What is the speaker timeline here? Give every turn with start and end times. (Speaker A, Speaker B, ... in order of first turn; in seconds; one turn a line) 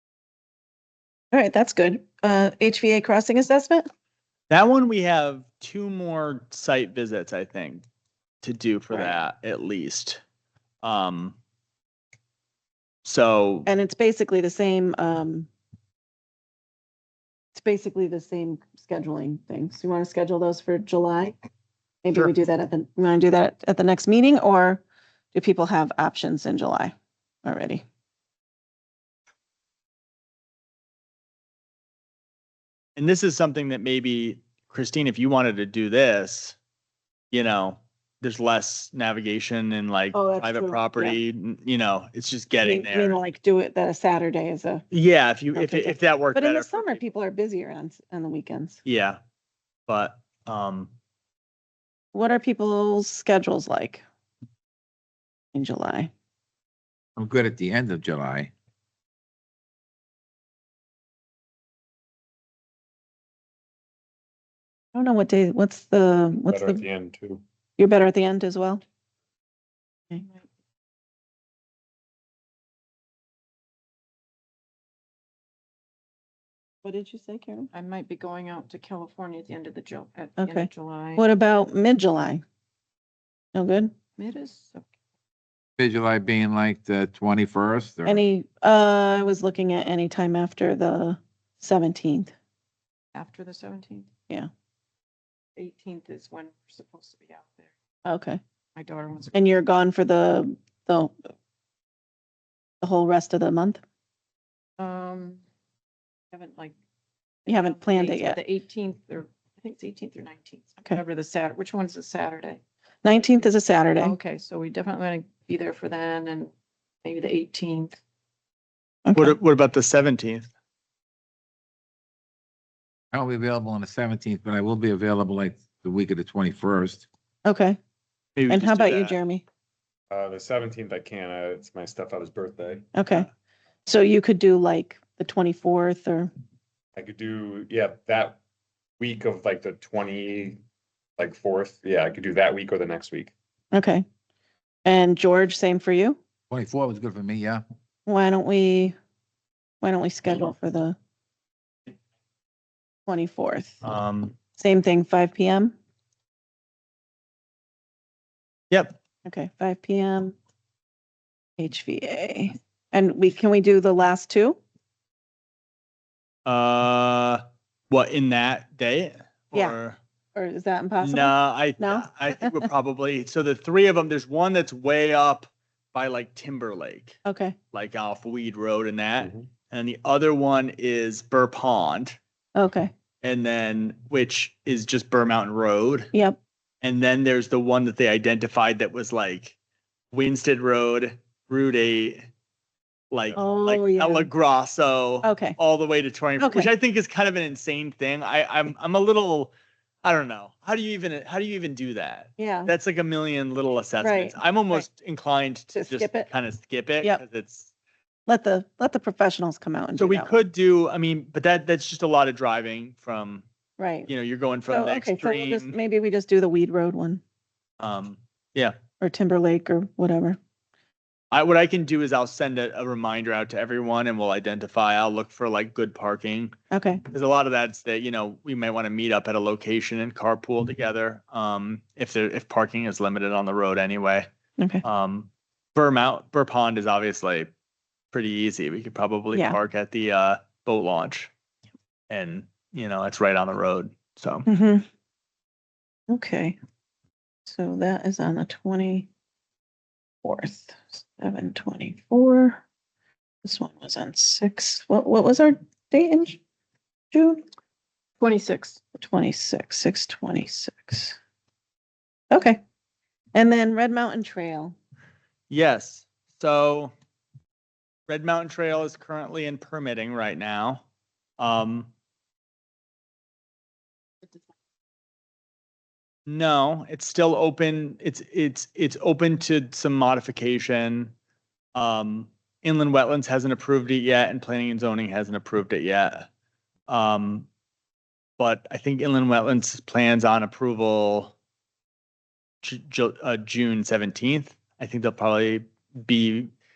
Speaker A: 1.3-3.9
Speaker B: 4.5-7.8
Speaker B: 8.4-10.2
Speaker B: 10.8-11.4
Speaker B: 13.0-13.7
Speaker A: 13.7-15.5
Speaker A: 17.5-21.3
Speaker A: 22.0-27.8
Speaker B: 33.0-36.5
Speaker B: 37.3-43.2
Speaker A: 40.1-41.2
Speaker A: 42.6-44.8
Speaker B: 44.9-47.0
Speaker A: 45.5-48.8
Speaker B: 48.8-49.2
Speaker B: 49.9-50.9
Speaker A: 52.1-54.0
Speaker A: 55.5-56.1
Speaker C: 57.2-58.5
Speaker A: 64.9-66.8
Speaker D: 66.5-67.4
Speaker A: 67.8-68.8
Speaker E: 70.2-70.4
Speaker A: 76.8-77.7
Speaker E: 77.7-81.2
Speaker A: 80.4-82.4
Speaker A: 83.5-83.9
Speaker E: 84.2-84.9
Speaker C: 85.8-88.2
Speaker A: 88.1-92.3
Speaker E: 93.1-94.1
Speaker E: 95.6-97.7
Speaker A: 98.1-98.4
Speaker E: 98.8-99.6
Speaker A: 99.3-101.1
Speaker A: 102.8-103.8
Speaker E: 104.8-105.4
Speaker E: 106.3-106.7
Speaker E: 107.5-112.6
Speaker A: 107.5-108.4
Speaker A: 113.0-114.2
Speaker E: 114.0-116.5
Speaker E: 117.0-118.0
Speaker A: 119.1-119.3
Speaker B: 119.1-120.5
Speaker C: 123.1-127.0
Speaker A: 127.5-127.8
Speaker B: 128.3-129.2
Speaker A: 128.5-129.4
Speaker D: 130.1-132.9
Speaker A: 132.9-133.3
Speaker A: 133.8-136.3
Speaker D: 136.9-138.4
Speaker D: 139.0-140.6
Speaker D: 141.2-143.3
Speaker A: 143.7-144.0
Speaker A: 144.8-146.2
Speaker C: 146.5-147.6
Speaker A: 148.1-148.9
Speaker A: 149.8-150.9
Speaker A: 153.1-153.8
Speaker B: 153.8-154.3
Speaker A: 154.5-155.8
Speaker B: 158.7-158.9
Speaker A: 159.2-160.3
Speaker A: 161.6-164.6
Speaker B: 166.4-170.0
Speaker A: 170.3-172.7
Speaker B: 171.0-177.2
Speaker A: 177.2-177.6
Speaker B: 177.7-182.2
Speaker D: 179.2-179.4
Speaker A: 182.5-182.9
Speaker B: 183.2-186.1
Speaker A: 186.1-186.4
Speaker B: 186.8-189.6
Speaker B: 190.1-192.2
Speaker B: 193.1-199.5
Speaker A: 193.3-194.3
Speaker A: 195.2-195.6
Speaker A: 196.4-196.7
Speaker B: 200.0-207.7
Speaker A: 202.4-202.7
Speaker A: 204.0-204.8
Speaker A: 205.7-206.3
Speaker A: 208.3-210.4
Speaker B: 209.9-213.4
Speaker A: 213.8-214.1
Speaker B: 214.1-215.8
Speaker A: 214.7-217.2
Speaker B: 217.8-218.7
Speaker A: 219.0-220.4
Speaker B: 221.3-226.5
Speaker A: 226.7-227.0
Speaker B: 227.1-234.3
Speaker B: 234.8-237.5
Speaker B: 238.1-241.3
Speaker A: 239.3-239.6
Speaker B: 242.1-244.4
Speaker A: 244.5-244.8
Speaker A: 246.1-246.6
Speaker A: 247.4-249.1
Speaker A: 250.2-252.6
Speaker A: 253.4-256.4
Speaker A: 257.1-257.4
Speaker E: 258.2-258.8
Speaker A: 258.9-261.2
Speaker A: 262.3-262.6
Speaker A: 263.3-264.8
Speaker B: 265.5-266.9
Speaker B: 268.1-270.9
Speaker B: 271.4-271.9
Speaker B: 276.3-281.1
Speaker B: 281.8-286.2
Speaker B: 286.9-287.5
Speaker B: 288.4-291.3
Speaker B: 292.6-296.5